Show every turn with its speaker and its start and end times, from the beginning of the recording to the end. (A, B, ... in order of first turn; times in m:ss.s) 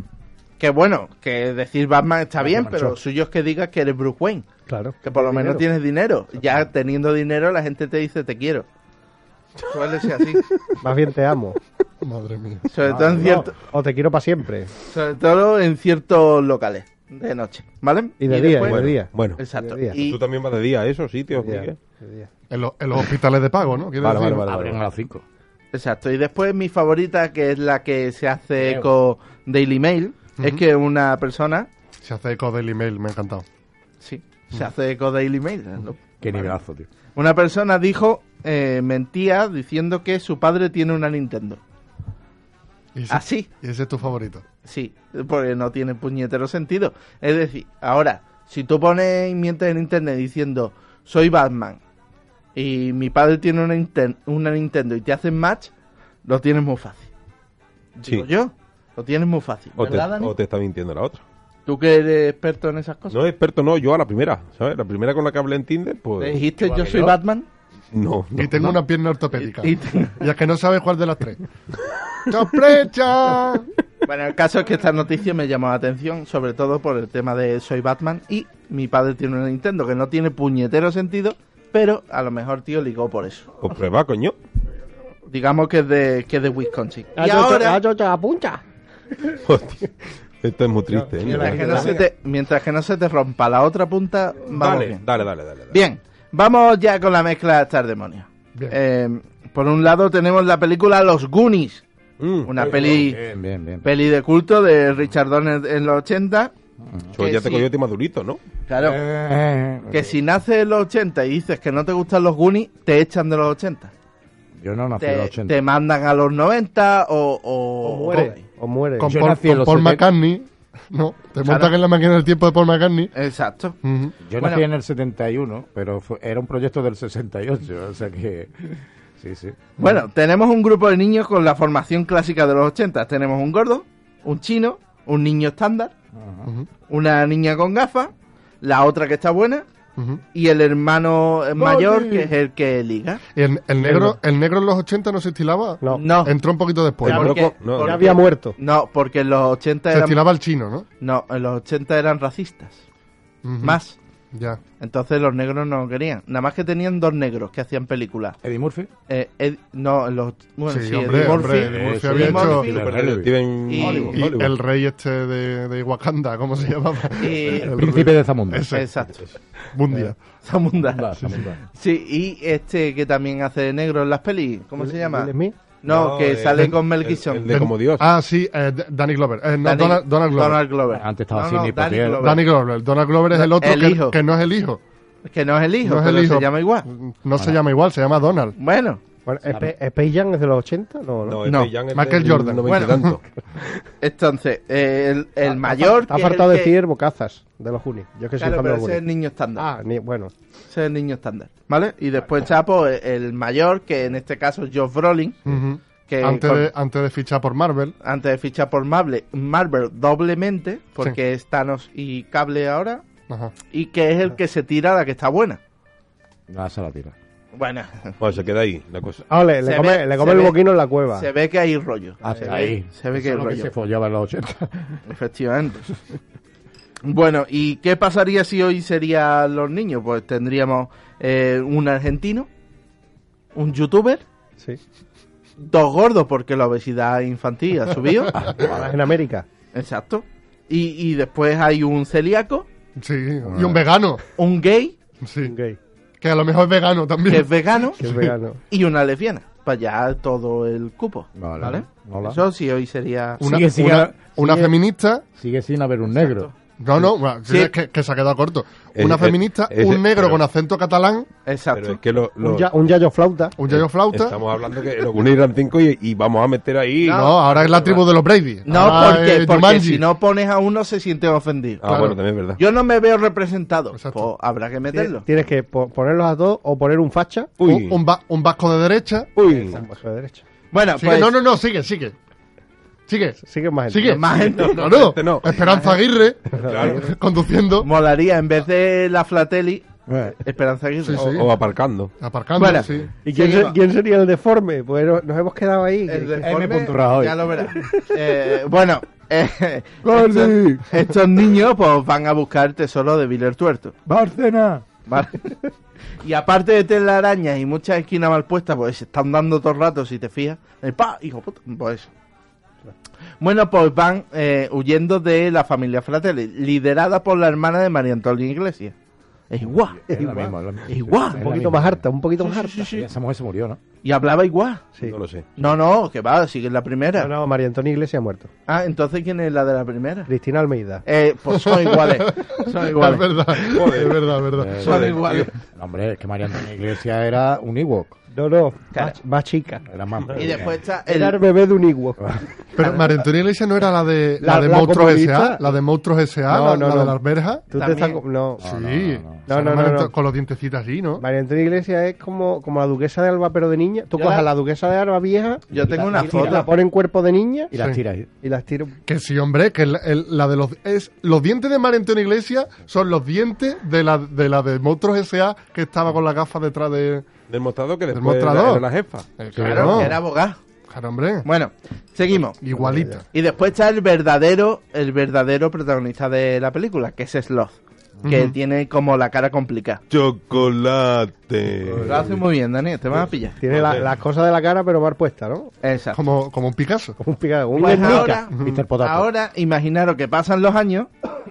0:00.6-0:04.5 A
0:02.5-0:02.8 B
0:04.7-0:05.6 C
0:05.0-0:08.7 A
0:09.7-0:10.4 A
0:10.8-0:11.6 C
0:12.0-0:12.7 D
0:12.7-0:13.6 A
0:12.9-0:13.5 B
0:13.2-0:14.7 C
0:14.9-0:20.2 A
0:18.2-0:20.0 C
0:18.5-0:19.4 E
0:20.0-0:21.8 E
0:21.4-0:22.3 C
0:22.5-0:24.5 D
0:24.0-0:24.8 E
0:24.5-0:25.2 B
0:25.7-0:31.7 A
0:28.6-0:28.9 B
0:32.0-0:33.5 D
0:34.0-0:36.6 A
0:36.2-0:36.9 B
0:37.2-0:41.6 A
0:42.9-0:44.4 D
0:43.1-0:43.5 A
0:44.6-0:51.8 A
0:52.6-0:55.7 A
0:56.2-0:57.1 A
0:58.0-1:00.4 A
0:59.8-1:01.2 E
1:01.7-1:03.2 A
1:03.1-1:06.4 E
1:06.2-1:07.5 A
1:06.6-1:07.2 B
1:07.9-1:08.8 E
1:08.4-1:11.4 D
1:09.4-1:10.2 A
1:12.3-1:13.7 D
1:14.1-1:23.5 A
1:23.6-1:24.4 E
1:25.3-1:27.8 A
1:27.2-1:28.6 C
1:29.4-1:29.9 E
1:30.4-1:32.1 E
1:30.9-1:31.9 C
1:31.2-1:35.0 A
1:34.5-1:35.8 E
1:35.7-1:41.8 A
1:42.2-1:42.8 E
1:42.4-1:43.2 A
1:42.6-1:43.9 B
1:43.8-1:46.5 A
1:46.8-1:47.2 B
1:47.1-1:48.4 E
1:47.2-1:47.7 A
1:48.7-1:49.0 A
1:48.8-1:50.2 B
1:49.9-1:53.9 A
1:54.6-1:55.6 B
1:55.0-1:58.4 A
1:57.8-1:59.2 C
1:59.0-2:03.1 D
1:59.0-2:00.1 B
2:01.4-2:01.7 A
2:03.2-2:03.8 A
2:03.8-2:04.1 D
2:04.2-2:09.7 B
2:04.4-2:04.6 A
2:09.8-2:15.9 A
2:16.1-2:16.5 B
2:16.9-2:19.7 A
2:20.0-2:20.2 D
2:20.3-2:23.2 A
2:23.3-2:27.3 D
2:23.8-2:24.1 C
2:25.8-2:26.1 C
2:25.9-2:26.4 A
2:27.0-2:28.6 C
2:27.1-2:28.2 E
2:27.1-2:30.2 A
2:29.9-2:30.9 D
2:31.0-2:32.8 A
2:33.4-2:33.8 D
2:33.6-2:34.0 A
2:34.3-2:34.6 D
2:34.8-2:38.4 A
2:38.4-2:38.9 B
2:39.1-2:43.1 A
2:40.7-2:42.7 D
2:41.3-2:44.1 B
2:42.7-2:44.6 E
2:43.7-2:44.2 A
2:43.8-2:49.0 D
2:47.2-2:47.8 A
2:47.6-2:48.7 B
2:48.7-2:49.2 A
2:49.7-2:50.2 D
2:50.4-2:57.5 A
2:50.9-2:51.6 B
2:54.8-2:55.6 C
2:55.9-2:58.1 E
2:57.5-3:00.6 D
2:59.6-3:02.5 A
3:00.9-3:02.2 B
3:02.2-3:04.8 D
3:03.3-3:04.2 A
3:05.3-3:06.9 A
3:05.8-3:08.6 D
3:08.6-3:09.0 A
3:09.3-3:11.4 C
3:11.3-3:13.2 E
3:11.4-3:11.7 A
3:11.9-3:13.2 D
3:12.7-3:13.0 A
3:14.0-3:16.7 A
3:15.6-3:19.0 C
3:18.4-3:19.7 A
3:19.6-3:20.3 C
3:20.7-3:25.5 A
3:25.5-3:28.0 D
3:26.1-3:26.7 A
3:28.0-3:33.0 A
3:33.3-3:33.6 D
3:33.7-3:35.6 A
3:36.5-3:37.1 B
3:37.5-3:38.2 A
3:38.2-3:39.2 E
3:39.3-3:41.3 C
3:39.6-3:40.6 A
3:41.1-3:43.7 A
3:42.2-3:45.0 B
3:42.2-3:42.6 C
3:45.1-3:45.9 A
3:47.0-3:52.5 A
3:53.6-3:54.2 A
3:55.6-3:58.4 A
3:58.5-3:59.5 C
3:58.5-3:58.8 B
3:59.7-4:02.7 A
4:03.0-4:04.2 D
4:03.5-4:03.8 B
4:04.4-4:05.0 A
4:05.2-4:05.5 D
4:05.4-4:05.8 C
4:06.2-4:08.4 D
4:07.3-4:08.0 A
4:08.0-4:08.6 C
4:08.7-4:13.5 A
4:11.4-4:12.4 B
4:13.4-4:15.2 D
4:13.4-4:14.7 B
4:15.4-4:16.5 B
4:16.1-4:16.6 A
4:16.8-4:21.3 D
4:17.5-4:17.7 A
4:19.0-4:20.4 E
4:21.5-4:22.0 A
4:21.8-4:22.7 E
4:22.4-4:23.6 C
4:23.6-4:24.4 D
4:23.7-4:27.8 E
4:27.0-4:28.0 A
4:27.1-4:30.0 D
4:28.7-4:31.8 A
4:31.8-4:32.6 E
4:31.8-4:32.2 D
4:32.6-4:35.2 A
4:33.9-4:34.3 D
4:34.9-4:37.5 C
4:37.6-4:38.0 E
4:37.6-4:39.3 D
4:39.4-4:39.8 E
4:39.4-4:40.4 C
4:40.7-4:41.4 A
4:41.0-4:42.2 D
4:43.1-4:47.9 D
4:43.5-4:44.2 C
4:44.0-4:44.8 A
4:44.6-4:45.6 E
4:45.6-4:46.0 A
4:46.5-4:47.1 C
4:46.6-4:47.1 E
4:47.8-4:51.4 A
4:50.1-4:50.4 B
4:51.0-4:51.6 D
4:51.2-4:52.1 E
4:52.2-4:53.1 D
4:52.6-4:53.8 A
4:53.2-4:56.5 C
4:56.1-5:04.0 A
4:56.4-4:57.9 B
5:00.0-5:01.0 B
5:04.1-5:04.8 B
5:05.1-5:05.7 A
5:06.2-5:12.1 A
5:13.4-5:18.9 A
5:19.5-5:20.1 A
5:19.6-5:22.0 B
5:20.1-5:20.6 C
5:20.9-5:21.4 A
5:21.4-5:23.0 C
5:22.4-5:23.0 A
5:22.9-5:23.8 B
5:24.0-5:24.8 A
5:25.0-5:25.5 E
5:25.6-5:27.3 A
5:27.2-5:28.5 C
5:28.7-5:30.3 A
5:30.3-5:31.0 C
5:31.1-5:33.4 A
5:31.5-5:34.9 D
5:33.6-5:34.3 E
5:34.6-5:38.2 B
5:34.8-5:35.5 E
5:34.8-5:35.5 A
5:38.3-5:39.8 C
5:39.9-5:40.8 B
5:40.4-5:41.4 A
5:41.0-5:42.2 C
5:42.2-5:42.5 B
5:42.8-5:47.7 D
5:42.8-5:43.2 A
5:44.4-5:45.7 C
5:46.5-5:47.2 C
5:47.7-5:48.6 C
5:47.7-5:48.2 A
5:48.6-5:49.5 B
5:48.6-5:51.2 D
5:49.5-5:50.1 C
5:51.2-5:57.7 C
5:54.1-5:54.5 A
5:55.7-5:56.7 A
5:55.7-5:56.7 B
5:57.7-5:58.3 B
5:58.4-5:59.0 C
5:59.1-6:07.3 D
6:07.5-6:09.5 E
6:08.1-6:08.9 D
6:09.4-6:10.2 D
6:09.6-6:10.1 B
6:09.6-6:10.6 A
6:10.9-6:11.5 D
6:11.4-6:12.6 A
6:12.6-6:13.2 D
6:12.8-6:13.2 C
6:13.3-6:20.0 A
6:18.2-6:18.6 D
6:20.1-6:22.3 E
6:21.9-6:22.4 B
6:22.1-6:23.6 A
6:23.6-6:25.7 C
6:23.7-6:24.1 E
6:25.8-6:26.2 A
6:26.1-6:27.2 D
6:27.2-6:28.4 C
6:27.8-6:31.1 A
6:27.8-6:29.3 B
6:28.6-6:28.8 D